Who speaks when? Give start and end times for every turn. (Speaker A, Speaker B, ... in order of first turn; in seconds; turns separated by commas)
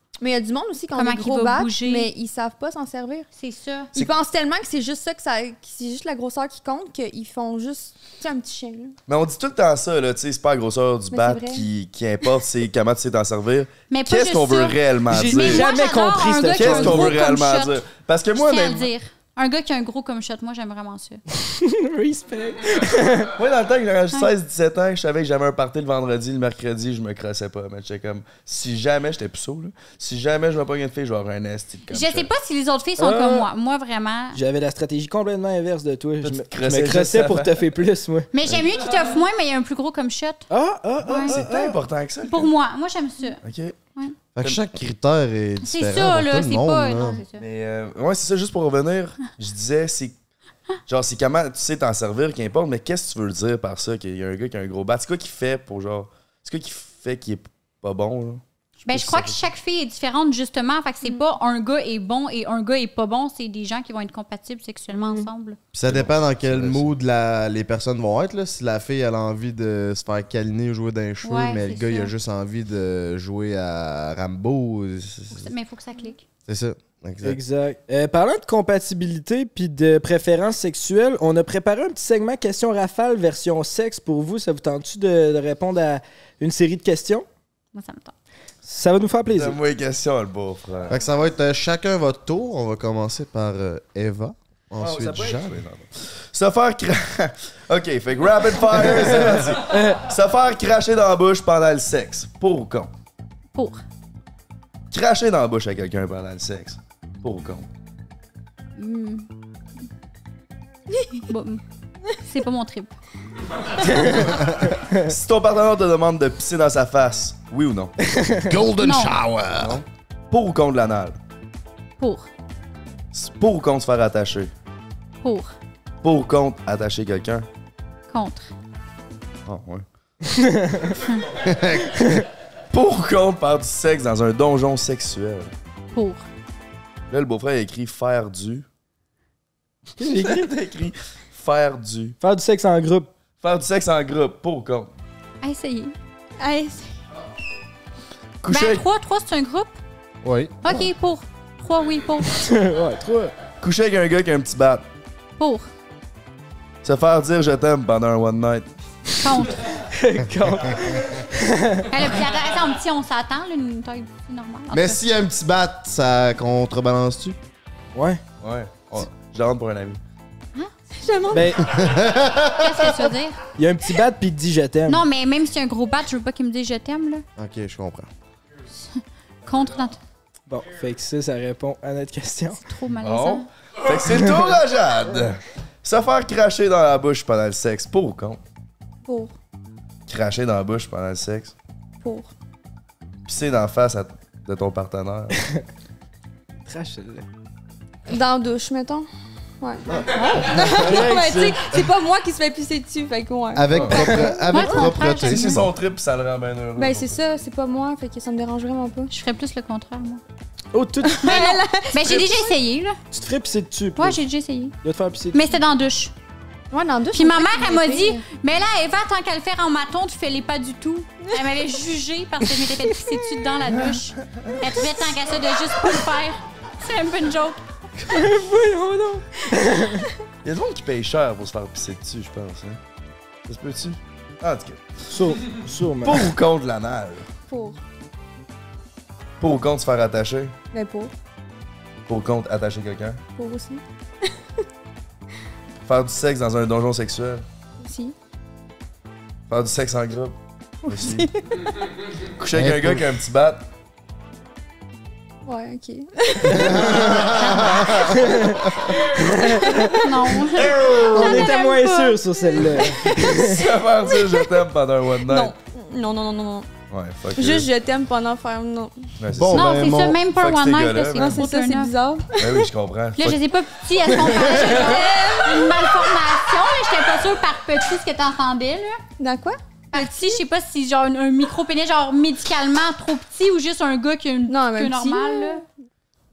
Speaker A: 0.2-3.3, Speaker B: 0.9-2.1, Speaker B: 3.3-3.9, Speaker A: 3.9-8.9, Speaker C: 9.1-15.7, Speaker A: 11.1-11.7, Speaker B: 13.9-17.8, Speaker D: 15.1-17.2, Speaker C: 16.5-18.9, Speaker B: 18.4-21.2, Speaker D: 21.4-23.3, Speaker C: 23.3-32.3, Speaker B: 31.9-34.4, Speaker D: 33.0-33.5, Speaker D: 34.3-38.5, Speaker C: 36.2-37.6, Speaker B: 38.3-40.5, Speaker D: 40.5-41.8, Speaker B: 41.0-41.4, Speaker C: 41.2-42.5, Speaker B: 42.3-43.4, Speaker C: 43.4-43.8, Speaker E: 44.3-47.2, Speaker B: 45.6-47.4, Speaker C: 47.4-50.1, Speaker C: 50.9-59.4, Speaker B: 58.8-65.6, Speaker E: 65.7-75.5, Speaker C: 65.8-66.9, Speaker B: 71.2-72.1, Speaker B: 75.3-76.2, Speaker E: 76.5-77.4, Speaker D: 77.2-87.2, Speaker B: 87.7-88.1, Speaker D: 88.6-89.6, Speaker C: 89.3-91.0, Speaker E: 90.9-95.6, Speaker C: 94.8-102.9, Speaker B: 103.5-103.8, Speaker C: 104.9-107.7, Speaker B: 108.8-109.3, Speaker B: 111.2-111.6, Speaker B: 112.2-113.0, Speaker D: 114.0-114.2, Speaker E: 114.2-114.7, Speaker C: 115.0-117.9, Speaker E: 118.5-119.8, Speaker B: 118.8-119.2, Speaker C: 119.6-121.2, Speaker B: 122.0-122.3, Speaker C: 123.1-124.5, Speaker B: 125.2-125.5, Speaker C: 126.0-127.5, Speaker B: 128.1-128.5, Speaker C: 129.4-129.8, Speaker D: 130.4-130.8, Speaker E: 131.4-131.9, Speaker C: 132.7-135.5, Speaker B: 135.9-136.2, Speaker C: 137.1-138.7, Speaker D: 140.0-140.5, Speaker C: 140.0-142.2, Speaker D: 142.2-143.1, Speaker C: 143.4-144.9, Speaker B: 145.4-145.9, Speaker A: 146.4-146.9, Speaker C: 148.4-148.8, Speaker B: 148.5-149.8, Speaker E: 150.2-150.8, Speaker B: 150.6-152.4, Speaker D: 152.4-153.3, Speaker C: 153.6-154.8, Speaker B: 155.4-155.7, Speaker C: 156.8-158.7, Speaker B: 159.2-159.7, Speaker D: 159.9-161.9, Speaker E: 160.7-161.1, Speaker B: 161.9-165.0, Speaker E: 164.7-167.4, Speaker D: 167.9-168.2, Speaker C: 168.4-170.0, Speaker A: 171.0-171.8, Speaker D: 171.3-171.6, Speaker E: 171.7-172.9, Speaker B: 172.5-173.4, Speaker D: 173.6-175.0, Speaker B: 174.9-177.2, Speaker E: 177.4-178.1, Speaker B: 178.8-180.0, Speaker D: 180.5-182.6, Speaker B: 182.6-183.5, Speaker C: 183.0-188.4, Speaker A: 189.0-189.3, Speaker C: 190.1-191.5, Speaker A: 192.0-192.3, Speaker C: 193.2-195.4, Speaker D: 195.4-195.6, Speaker D: 196.7-197.2, Speaker A: 198.1-199.1, Speaker A: 199.6-204.9, Speaker D: 200.1-201.6, Speaker E: 203.5-205.7, Speaker C: 203.7-204.1, Speaker D: 203.9-204.4, Speaker B: 204.5-205.6, Speaker C: 205.1-207.2, Speaker A: 206.8-209.1, Speaker B: 209.1-210.2, Speaker D: 210.7-211.2, Speaker A: 211.0-212.5, Speaker B: 211.2-213.0, Speaker D: 213.1-214.2, Speaker B: 214.0-214.8, Speaker D: 214.8-215.4, Speaker B: 215.3-216.1, Speaker A: 216.7-218.2, Speaker B: 217.1-227.6, Speaker D: 228.0-230.1, Speaker C: 230.4-232.8, Speaker C: 233.5-234.9, Speaker D: 235.1-236.3, Speaker C: 235.5-237.3, Speaker A: 237.5-237.8, Speaker C: 239.4-240.5, Speaker A: 240.7-241.1, Speaker C: 242.1-243.2, Speaker A: 243.4-244.3, Speaker C: 245.8-247.4, Speaker A: 247.8-248.1, Speaker C: 249.5-251.3, Speaker A: 250.8-251.7, Speaker C: 252.4-253.6, Speaker E: 252.5-253.0, Speaker A: 255.4-257.7, Speaker E: 256.5-259.0, Speaker D: 258.1-258.6, Speaker A: 259.1-260.3, Speaker D: 259.2-260.0, Speaker B: 260.0-262.0, Speaker C: 260.5-261.5, Speaker D: 260.8-263.6, Speaker A: 261.1-264.6, Speaker C: 263.4-265.5, Speaker A: 265.2-266.7, Speaker C: 266.9-267.7, Speaker A: 267.4-269.1, Speaker C: 269.2-271.4, Speaker E: 269.3-270.2, Speaker B: 269.5-271.9, Speaker A: 271.2-272.7, Speaker C: 272.4-273.4, Speaker B: 273.2-279.0, Speaker A: 274.2-276.1, Speaker A: 279.2-280.4, Speaker B: 279.9-285.6, Speaker A: 284.5-285.6